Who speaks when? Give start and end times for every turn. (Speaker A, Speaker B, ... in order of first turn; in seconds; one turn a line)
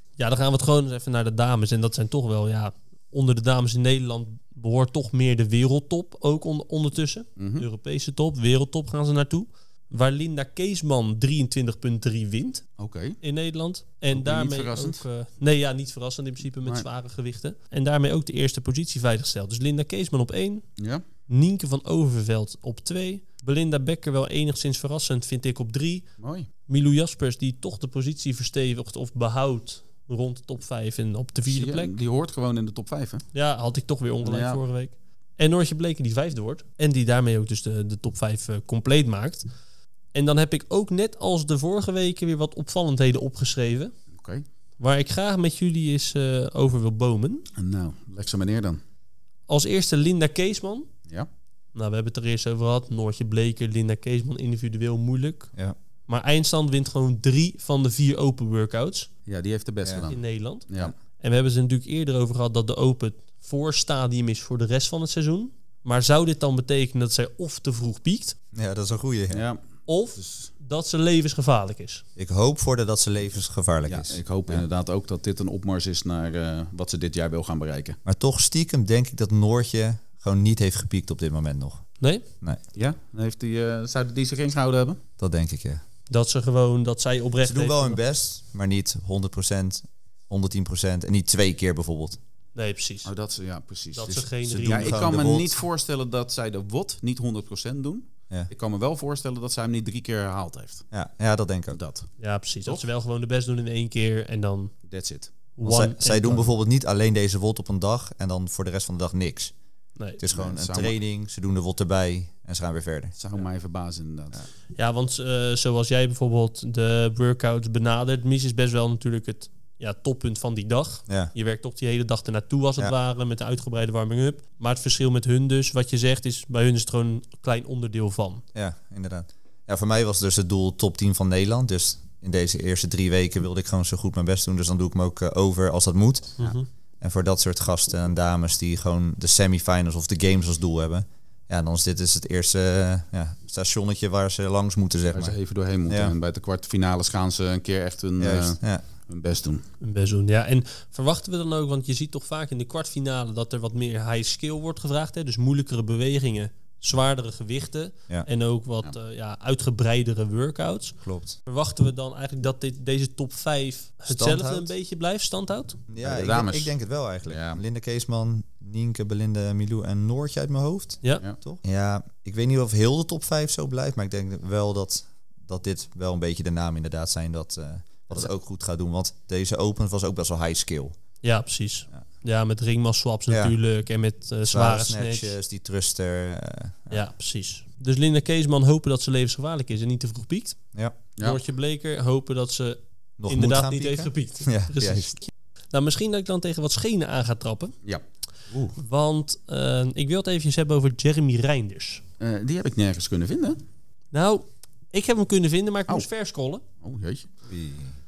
Speaker A: 0.2-12.7
Speaker B: 7.4-7.7
Speaker B: 12.8-13.2
Speaker A: 13.2-20.7
Speaker B: 14.1-15.0
Speaker B: 20.8-21.0
Speaker A: 21.3-26.1
Speaker B: 26.2-26.5
Speaker A: 26.7-31.9
Speaker B: 31.5-33.3
Speaker A: 33.3-39.5
Speaker B: 34.2-34.6
Speaker A: 40.1-43.9
Speaker B: 44.1-44.5
Speaker A: 44.8-47.5
Speaker B: 47.6-48.8
Speaker A: 49.5-50.9
Speaker A: 51.8-55.5
Speaker A: 56.1-59.1
Speaker B: 59.3-60.9
Speaker C: 59.8-60.1
Speaker A: 60.1-68.4
Speaker C: 68.5-69.5
Speaker B: 69.3-69.6
Speaker A: 69.9-72.0
Speaker B: 70.2-70.5
Speaker C: 72.2-74.7
Speaker B: 73.9-78.0
Speaker C: 78.0-82.6
Speaker A: 82.0-82.3
Speaker B: 82.7-85.0
Speaker C: 85.2-85.8
Speaker A: 86.1-88.0
Speaker C: 87.4-92.2
Speaker A: 92.5-93.1
Speaker B: 93.0-100.9
Speaker A: 93.9-95.1
Speaker C: 94.4-95.5
Speaker C: 100.9-101.8
Speaker B: 101.7-102.1
Speaker A: 102.2-104.8
Speaker B: 104.9-105.3
Speaker A: 105.6-106.5
Speaker C: 105.6-109.5
Speaker C: 110.2-113.2
Speaker B: 110.3-111.0
Speaker B: 113.2-114.5
Speaker A: 114.8-128.4
Speaker C: 121.1-121.3
Speaker C: 128.6-136.5
Speaker A: 136.4-136.7
Speaker C: 137.0-146.1
Speaker B: 145.1-149.6
Speaker C: 148.2-148.8
Speaker A: 149.8-165.8
Speaker C: 161.0-161.4
Speaker C: 164.1-164.7
Speaker C: 165.9-181.0
Speaker B: 166.0-166.7
Speaker B: 167.3-167.6
Speaker A: 181.2-185.3
Speaker C: 183.3-183.6
Speaker C: 184.5-187.1
Speaker A: 186.9-190.6
Speaker A: 191.2-197.8
Speaker C: 193.2-195.2
Speaker C: 198.5-198.8
Speaker A: 198.8-202.0
Speaker B: 202.2-203.6
Speaker A: 204.1-206.6
Speaker B: 206.8-207.3
Speaker C: 207.5-208.0